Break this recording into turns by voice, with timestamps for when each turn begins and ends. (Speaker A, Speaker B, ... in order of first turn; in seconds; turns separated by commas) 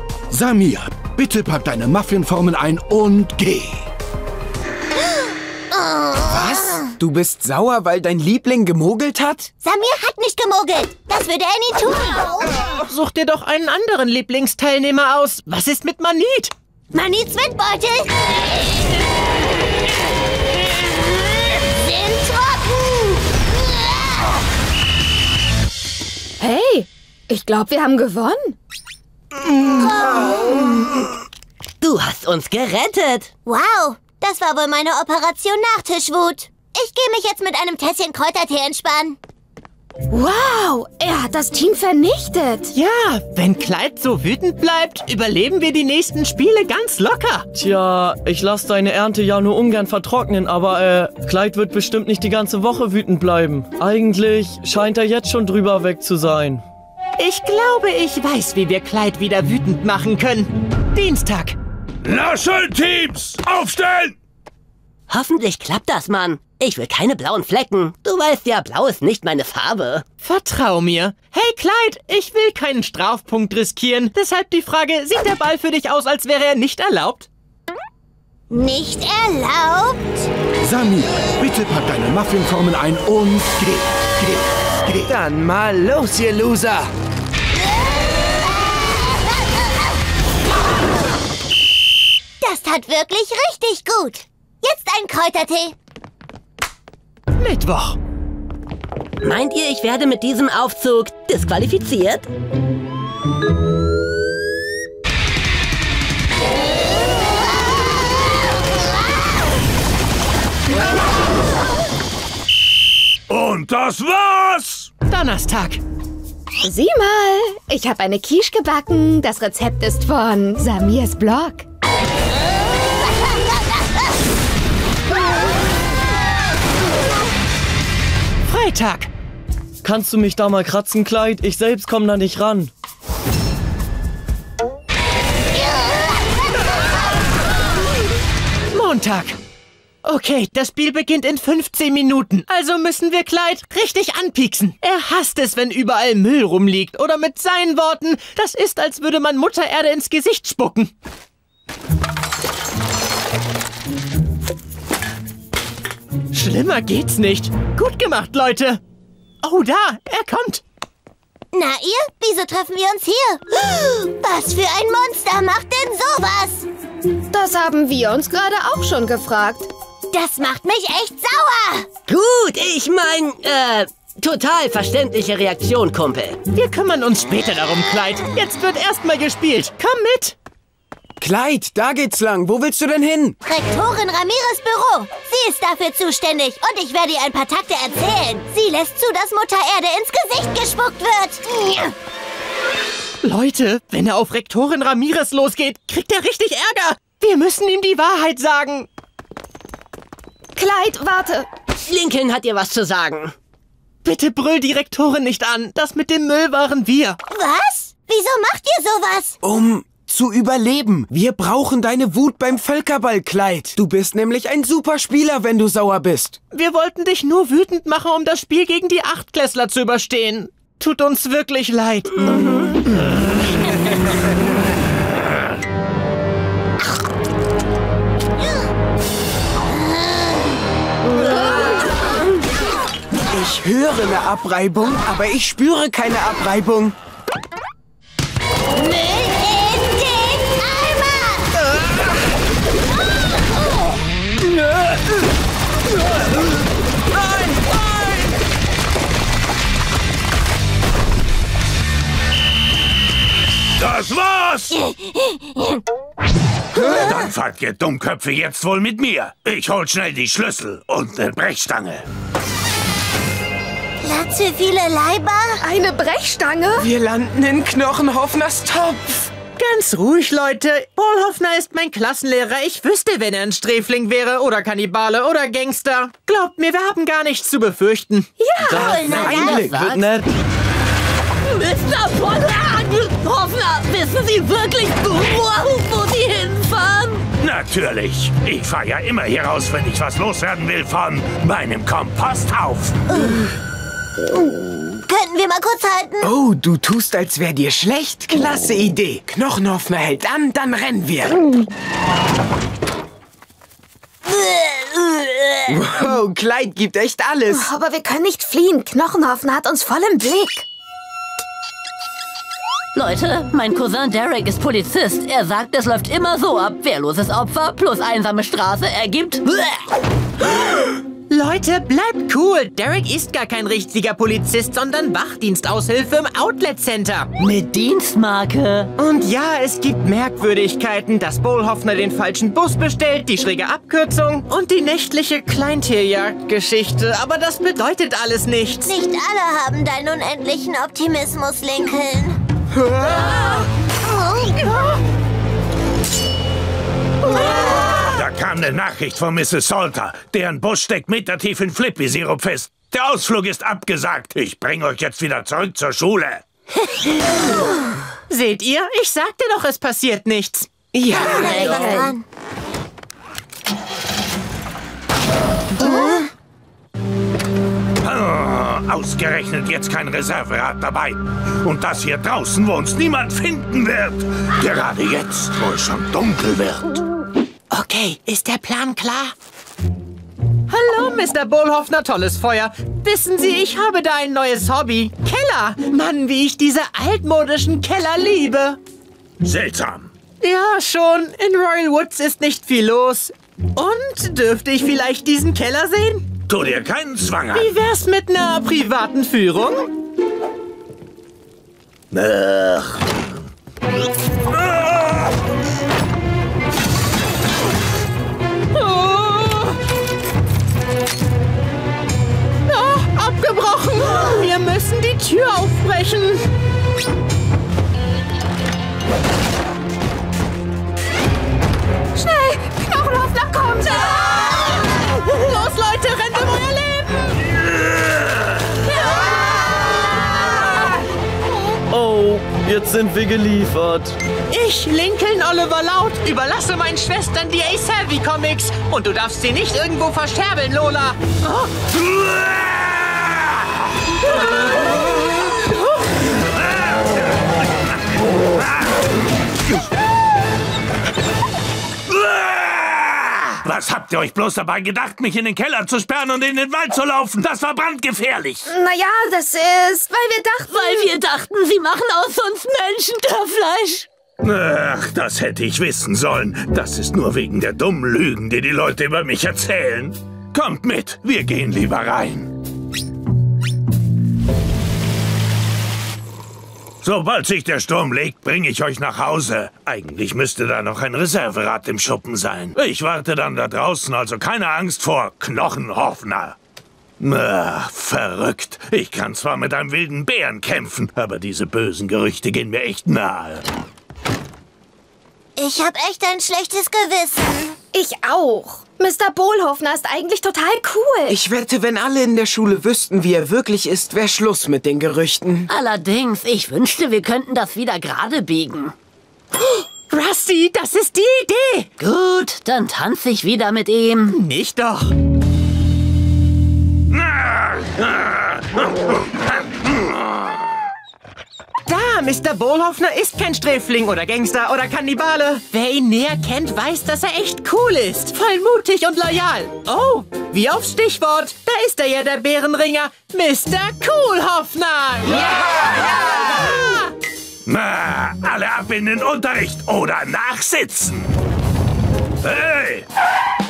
Speaker A: 0.3-3.8, Speaker B: 5.7-6.2, Speaker C: 6.3-9.5, Speaker B: 9.6-12.5, Speaker D: 12.8-16.5, Speaker B: 16.9-18.1, Speaker B: 21.6-23.2, Speaker E: 26.4-28.6, Speaker B: 29.8-30.4, Speaker F: 31.8-33.3, Speaker B: 33.4-39.2, Speaker E: 40.1-42.7, Speaker D: 42.7-47.5, Speaker G: 47.5-56.6, Speaker D: 57.2-61.5, Speaker H: 62.0-64.1, Speaker F: 65.1-70.0, Speaker D: 70.2-77.3, Speaker B: 78.5-80.3, Speaker A: 80.6-83.9, Speaker C: 85.1-86.4, Speaker B: 92.4-95.7, Speaker D: 97.4-98.0, Speaker F: 99.2-102.3, Speaker H: 113.3-114.9, Speaker D: 115.1-115.8, Speaker E: 116.6-121.7, Speaker D: 128.4-129.1, Speaker G: 129.8-132.7, Speaker D: 138.7-139.4, Speaker D: 140.0-150.9, Speaker D: 156.3-158.8, Speaker D: 159.4-160.6, Speaker B: 161.5-166.7, Speaker E: 167.3-169.7, Speaker B: 170.1-171.9, Speaker F: 172.1-176.4, Speaker D: 176.5-180.3, Speaker C: 181.2-183.4, Speaker B: 183.4-191.9, Speaker D: 193.2-198.9, Speaker E: 200.6-201.5, Speaker F: 201.9-203.3, Speaker D: 204.0-207.2, Speaker B: 207.3-209.3, Speaker C: 209.4-216.4, Speaker D: 216.5-222.7, Speaker C: 233.3-236.9, Speaker B: 238.8-241.5, Speaker H: 253.8-254.7, Speaker B: 254.8-255.6, Speaker H: 256.8-262.0, Speaker B: 264.0-265.6, Speaker E: 265.6-266.9, Speaker C: 266.8-269.3, Speaker D: 269.6-278.3, Speaker E: 278.4-279.0, Speaker C: 278.6-280.2, Speaker B: 278.7-279.9, Speaker G: 278.9-280.3, Speaker F: 281.4-287.2, Speaker H: 287.4-293.0, Speaker B: 293.1-293.4, Speaker B: 295.1-296.3, Speaker C: 296.2-301.4, Speaker F: 304.3-305.7, Speaker C: 305.7-307.7, Speaker E: 307.5-310.6, Speaker F: 312.9-319.8, Speaker D: 321.3-327.3, Speaker F: 327.4-328.9, Speaker D: 329.0-338.9, Speaker B: 338.8-342.4, Speaker C: 342.9-343.3, Speaker H: 348.1-356.4, Speaker D: 358.3-360.7, Speaker C: 360.9-362.1, Speaker B: 361.1-362.2, Speaker H: 368.0-377.0, Speaker D: 377.7-379.3, Speaker D: 380.7-388.8, Speaker H: 389.4-390.1, Speaker D: 390.4-396.3, Speaker H: 396.5-397.7, Speaker D: 397.5-399.9, Speaker H: 402.1-403.0, Speaker D: 408.7-409.8, Speaker D: 412.7-416.4, Speaker E: 422.2-424.5, Speaker D: 424.3-427.4, Speaker G: 431.9-434.1, Speaker D: 434.5-441.6, Speaker H: 452.1-458.7, Speaker E: 458.7-461.1, Speaker F: 460.7-464.1, Speaker H: 464.4-472.5, Speaker H: 477.0-486.5, Speaker H: 487.2-493.6, Speaker B: 495.6-497.7, Speaker E: 497.9-501.4, Speaker C: 501.3-505.7, Speaker F: 505.7-508.9, Speaker D: 510.1-511.9, Speaker F: 512.0-514.4, Speaker D: 514.3-515.1, Speaker H: 517.1-518.9, Speaker D: 521.9-537.0, Speaker H: 537.6-541.3, Speaker H: 542.4-543.0